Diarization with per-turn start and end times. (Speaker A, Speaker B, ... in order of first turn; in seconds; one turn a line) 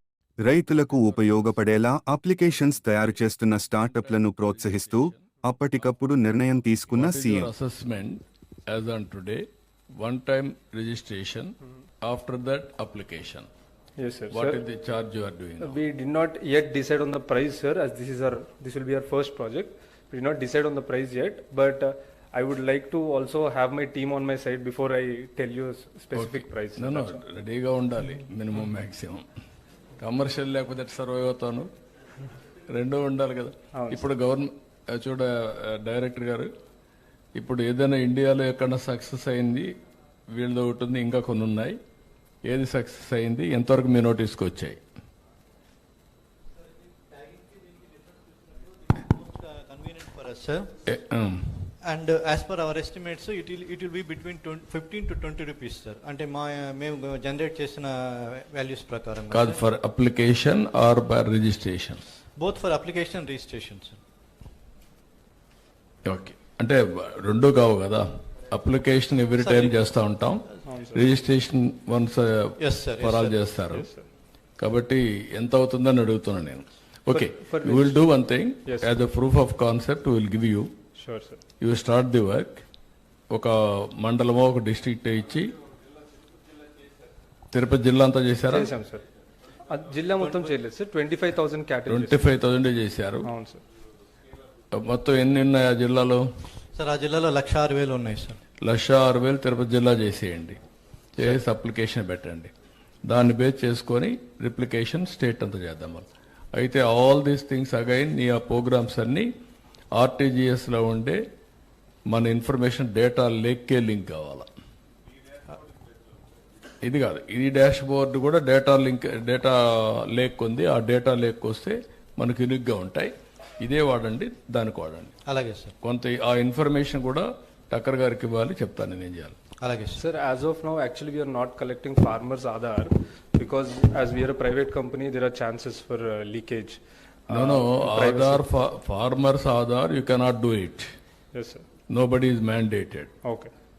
Speaker A: 0.4-7.5
Speaker B: 4.0-5.4
Speaker B: 6.9-9.4
Speaker B: 9.9-13.5
Speaker C: 13.9-14.6
Speaker B: 14.3-15.8
Speaker C: 15.6-27.2
Speaker B: 26.1-29.2
Speaker B: 30.0-31.7
Speaker B: 32.7-36.5
Speaker C: 33.7-34.1
Speaker B: 37.4-39.7
Speaker B: 40.3-41.8
Speaker B: 42.4-44.8
Speaker D: 47.0-50.7
Speaker B: 50.9-51.7
Speaker D: 51.8-59.6
Speaker B: 59.3-62.0
Speaker D: 62.4-64.0
Speaker B: 66.0-73.9
Speaker D: 69.4-69.8
Speaker C: 70.6-71.1
Speaker D: 72.6-73.4
Speaker C: 73.7-74.0
Speaker B: 74.6-80.7
Speaker C: 77.1-78.1
Speaker C: 78.6-78.9
Speaker C: 80.9-81.4
Speaker B: 81.6-82.6
Speaker B: 83.3-85.5
Speaker B: 87.5-88.7
Speaker C: 88.5-89.0
Speaker C: 89.7-92.3
Speaker B: 91.9-93.3
Speaker C: 93.2-93.6
Speaker B: 94.7-96.2
Speaker D: 96.7-98.4
Speaker B: 98.6-100.6
Speaker B: 101.2-102.5
Speaker B: 103.0-109.3
Speaker B: 109.9-111.2
Speaker B: 112.1-114.5
Speaker B: 116.8-125.2
Speaker D: 125.2-125.7
Speaker B: 125.8-129.4
Speaker D: 129.6-130.0
Speaker C: 129.9-138.5
Speaker B: 137.3-140.9
Speaker C: 141.3-141.7
Speaker B: 141.9-143.1
Speaker C: 143.2-143.5